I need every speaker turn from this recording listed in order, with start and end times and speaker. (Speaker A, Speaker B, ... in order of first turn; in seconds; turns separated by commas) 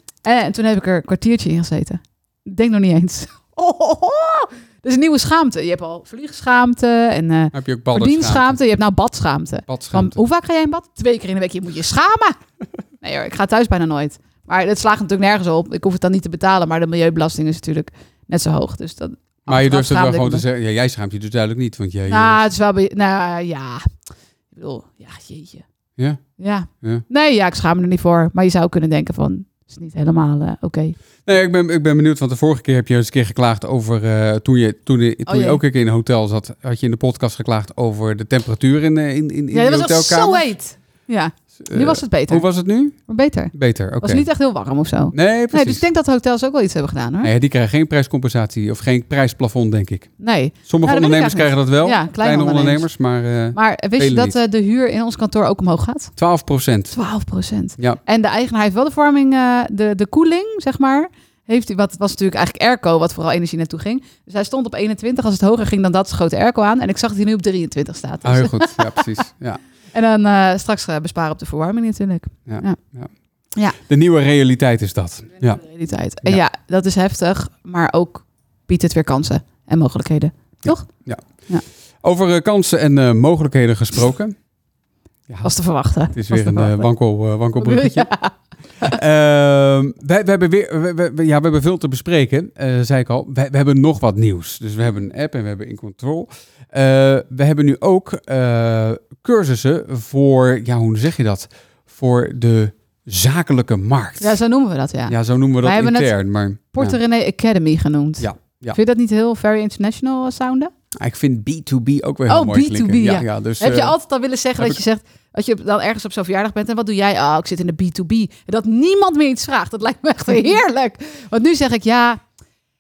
Speaker A: 0.2-12.4, Speaker B: 7.5-8.6, Speaker B: 9.7-10.2, Speaker A: 13.0-20.4, Speaker B: 19.5-22.4, Speaker A: 22.1-23.9, Speaker A: 24.5-25.6, Speaker B: 26.0-26.2, Speaker A: 26.4-31.0, Speaker B: 31.3-40.4, Speaker A: 35.3-35.6, Speaker A: 39.5-42.5, Speaker B: 41.6-43.0, Speaker A: 43.1-47.3, Speaker B: 43.5-44.3, Speaker B: 45.1-45.8, Speaker B: 47.2-50.1, Speaker A: 50.2-52.9, Speaker B: 50.7-54.4, Speaker A: 53.5-56.1, Speaker B: 56.2-57.0, Speaker A: 56.9-69.1, Speaker B: 68.2-69.6, Speaker A: 69.9-72.8, Speaker B: 72.5-73.1, Speaker B: 73.8-75.6, Speaker A: 75.4-80.9, Speaker B: 80.6-81.2, Speaker B: 82.0-84.4, Speaker A: 85.4-86.9, Speaker B: 86.1-88.1, Speaker A: 87.6-89.0, Speaker B: 88.8-104.4, Speaker A: 104.2-106.1, Speaker B: 105.1-107.0, Speaker A: 106.7-110.7, Speaker B: 108.2-108.8, Speaker B: 111.0-114.0, Speaker A: 112.3-122.2